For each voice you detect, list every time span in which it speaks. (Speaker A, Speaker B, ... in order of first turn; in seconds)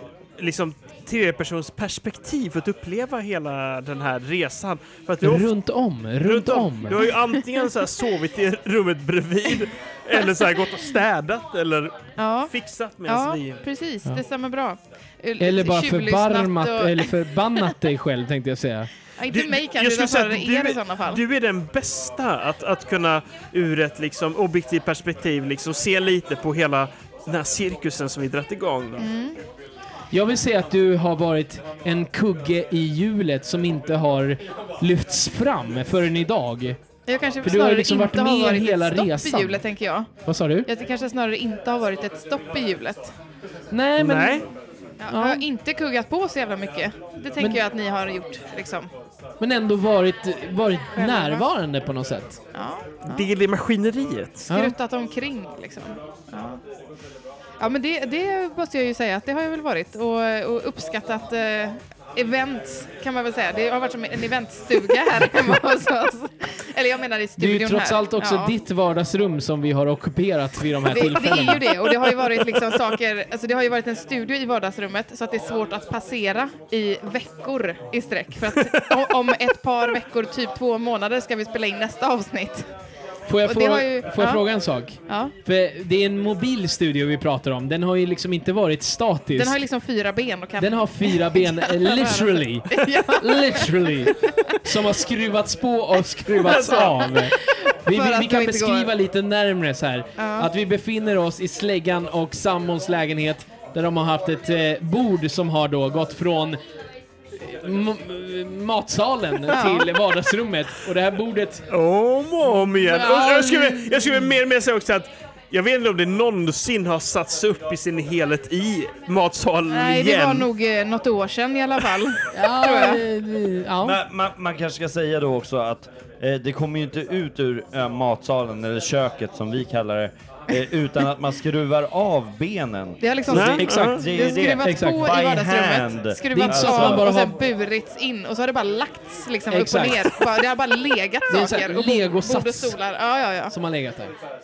Speaker A: 0.4-5.5, 6.2-13.6, 19.3-29.1, 44.0-44.5, 53.1-54.5, 96.5-96.9, 111.7-120.5, 133.3-134.0
Speaker B: 5.2-7.0, 15.4-18.9, 30.1-36.8, 37.4-39.6, 40.2-40.7, 43.7-44.4, 45.1-45.5, 49.4-52.4, 54.5-54.8, 67.4-71.7, 83.3-89.6, 90.6-106.6, 107.4-111.7, 112.9-114.3, 122.3-124.0, 133.3-134.0, 134.6-135.1, 136.3-137.4, 139.5-140.1, 141.3-142.8, 143.5-144.1
Speaker C: 7.4-7.7, 12.2-12.5, 13.1-17.1, 19.2-21.2, 29.0-29.4, 37.1-40.1, 40.6-43.1, 45.0-48.9, 51.0-51.4, 52.5-53.3, 54.5-56.6, 57.6-68.5, 70.9-82.7, 83.4-84.4, 85.1-85.3, 89.4-94.6, 96.4-98.9, 100.2-100.5, 109.5-109.9, 119.7-123.0, 133.0-143.5
Speaker D: 123.8-137.1